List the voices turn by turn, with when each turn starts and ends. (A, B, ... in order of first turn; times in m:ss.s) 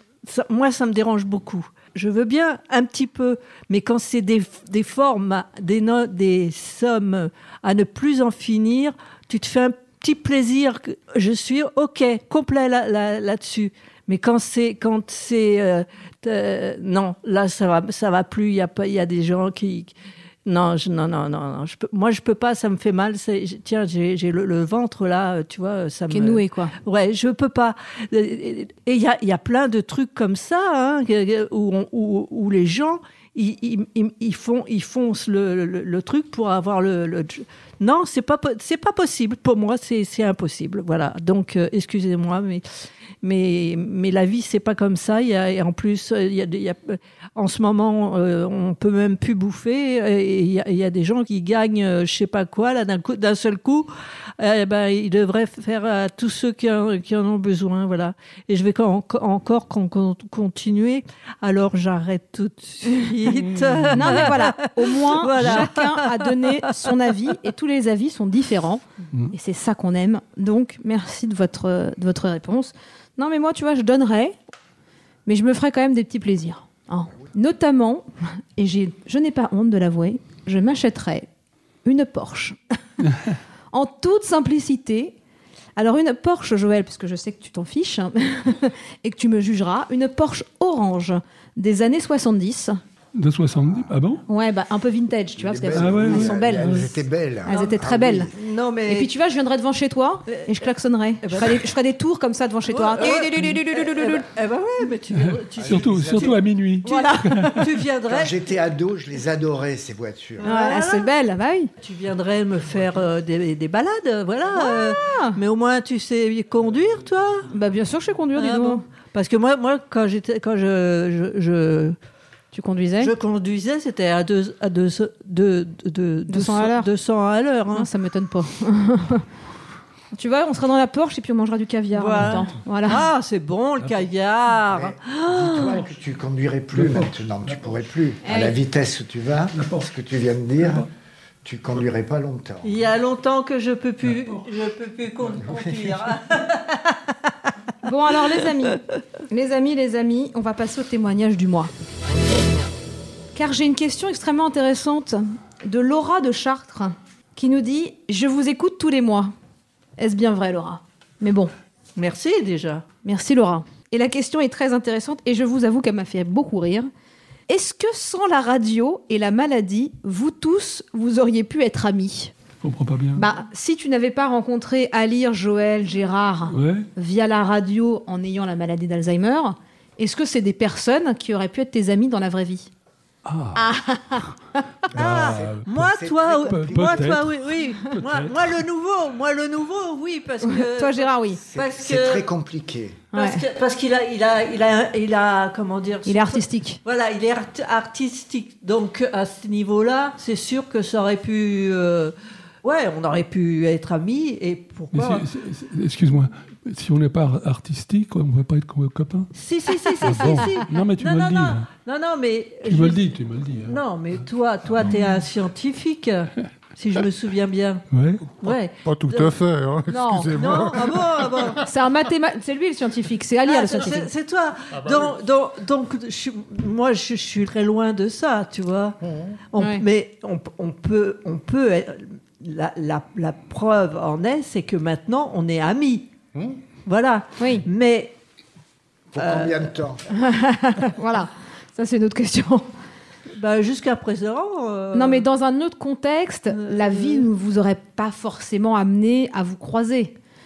0:00.2-0:19.9 A
0:20.5-0:42.6 A
0:26.1-0:26.7 B
0:43.2-1:07.0 A
1:03.4-1:04.3 C
1:03.9-1:14.4 B
1:05.4-1:05.7 C
1:15.3-1:21.3 B
1:21.8-1:22.6 B
1:23.7-1:25.2 B
1:25.8-1:32.8 B
1:33.2-1:34.2 C
1:34.3-1:36.9 B
1:35.4-1:38.3 D
1:35.8-1:36.3 C
1:37.5-1:38.3 B
1:38.3-1:39.1 A
1:38.9-1:44.3 B
1:40.3-1:40.5 A
1:41.2-1:41.7 A
1:42.7-1:46.4 A
1:45.2-1:47.7 C
1:45.6-1:46.4 D
1:46.8-1:47.7 B
1:47.6-1:48.5 A
1:48.1-1:50.5 D
1:50.4-1:51.1 A
1:50.4-1:51.7 B
1:51.8-1:57.5 A
1:54.5-1:55.4 B
1:57.5-1:58.8 B
1:58.4-2:02.0 A
2:02.5-2:03.1 B
2:03.0-2:07.9 A
2:06.3-2:06.9 B
2:07.7-2:09.2 B
2:10.1-2:13.0 B
2:11.9-2:15.8 A
2:14.7-2:20.9 D
2:16.7-2:17.8 C
2:18.2-2:18.6 B
2:19.6-2:19.8 C
2:21.4-2:22.8 D
2:22.6-2:27.3 A
2:25.5-2:25.9 D
2:27.8-2:31.7 B
2:33.4-2:39.3 B
2:40.0-2:41.5 B
2:42.0-2:42.8 A
2:43.0-2:46.9 B
2:47.5-2:52.3 B
2:52.6-2:53.3 C
2:53.2-3:02.7 B
2:56.5-2:56.9 C
3:03.2-3:03.7 C
3:03.6-3:04.6 B
3:04.9-3:07.2 D
3:05.0-3:08.5 C
3:05.0-3:12.3 A
3:10.4-3:11.4 B
3:11.4-3:13.0 D
3:13.1-3:13.4 B
3:13.1-3:25.3 A
3:16.1-3:16.8 B
3:24.9-3:29.3 C
3:29.4-3:37.8 A
3:29.9-3:31.7 C
3:32.7-3:33.8 C
3:37.9-3:38.4 C
3:38.4-3:39.4 A
3:38.8-3:41.6 E
3:39.9-3:40.6 B
3:40.4-3:41.7 A
3:41.6-3:44.1 B
3:43.4-3:56.1 A
3:44.7-3:45.1 E
3:49.0-3:49.4 E
3:49.6-3:49.8 B
3:56.4-3:56.6 E
3:56.9-3:58.2 A
3:57.4-3:57.6 B
3:59.1-4:00.0 D
3:59.2-3:59.7 A
4:00.1-4:02.7 B
4:03.3-4:05.2 A
4:04.9-4:10.2 B
4:06.5-4:07.3 A